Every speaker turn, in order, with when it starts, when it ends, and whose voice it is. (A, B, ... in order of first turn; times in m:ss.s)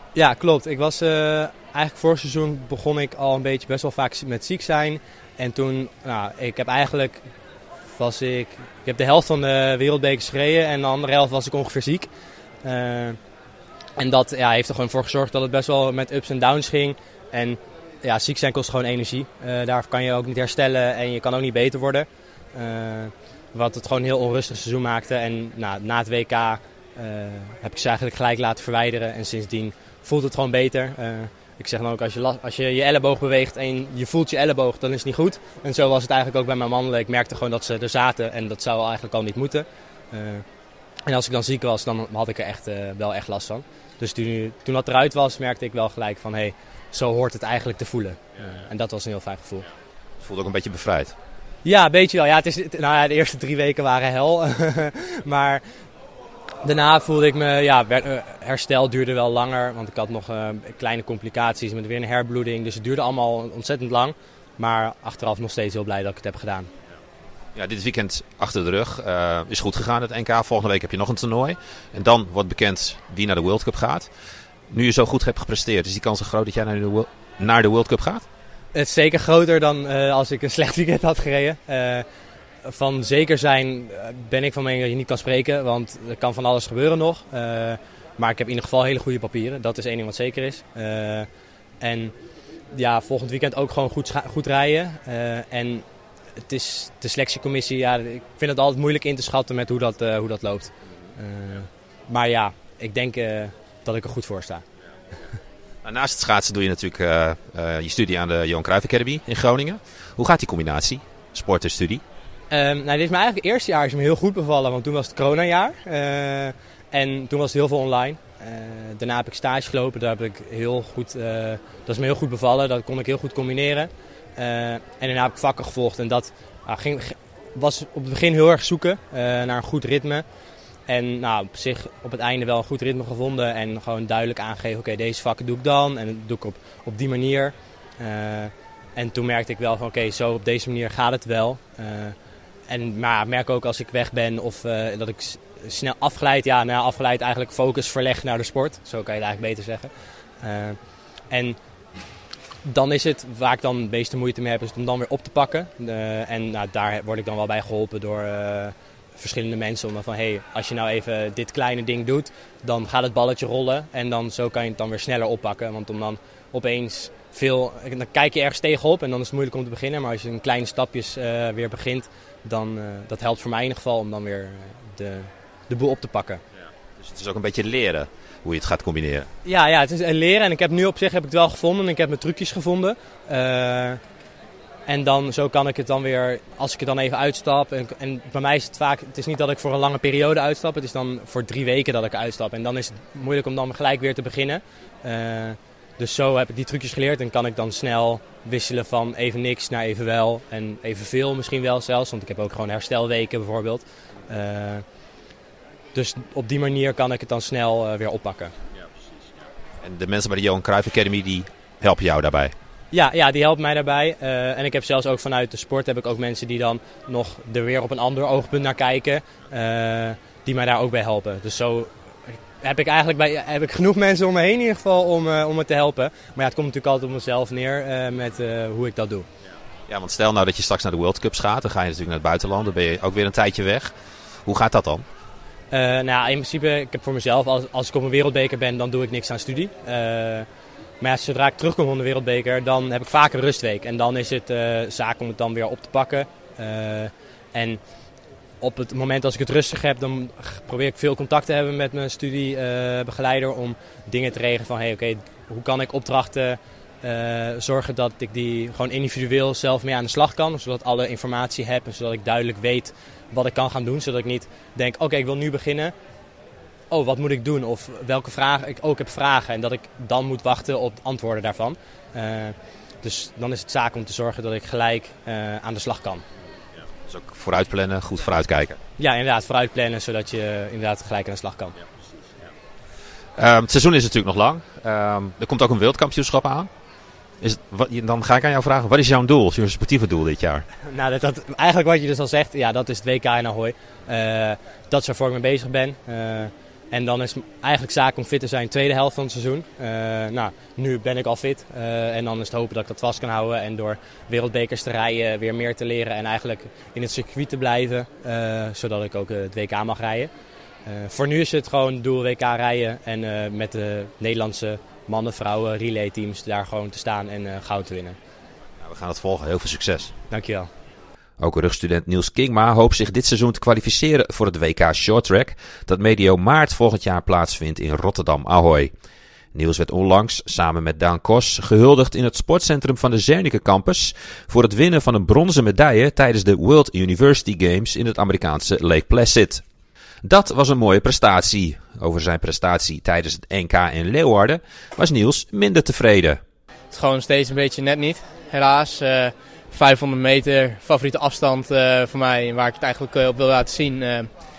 0:00.2-0:07.2 A
0:07.9-0:12.1 A
0:12.6-0:13.2 A
0:14.0-0:40.4 A
0:41.1-0:49.7 A
0:50.2-0:51.2 B
0:51.6-0:55.6 A
0:56.6-1:06.7 A
1:07.6-1:14.1 B
1:14.7-1:18.2 B
1:18.7-1:22.0 A
1:22.6-1:31.3 A
1:31.8-1:32.1 A
1:32.7-1:35.8 A
1:36.4-1:44.6 A
1:45.8-1:52.0 B
1:52.5-2:10.2 A
2:10.9-2:22.2 A
2:22.7-2:29.9 A
2:30.4-2:30.8 A
2:31.3-2:31.6 A
2:32.6-2:56.4 A
2:57.0-2:59.3 B
2:59.4-3:04.0 A
3:04.9-3:24.8 A
3:25.9-3:28.5 A
3:29.8-3:32.5 B
3:32.9-3:49.3 A
3:49.9-3:53.9 B
3:54.5-3:55.0 B
3:55.7-4:00.5 A
4:01.0-4:07.8 A
4:08.6-4:25.9 A
4:26.9-4:36.2 A
4:37.1-4:38.8 B
4:39.0-4:41.7 A
4:43.4-4:46.7 B
4:47.4-4:50.7 B
4:50.8-5:10.3 A
5:10.9-5:18.2 A
5:18.8-5:20.1 B
5:20.3-5:20.7 A
5:21.4-5:28.9 B
5:29.5-5:39.6 B
5:40.2-5:46.4 B
5:46.9-5:54.3 C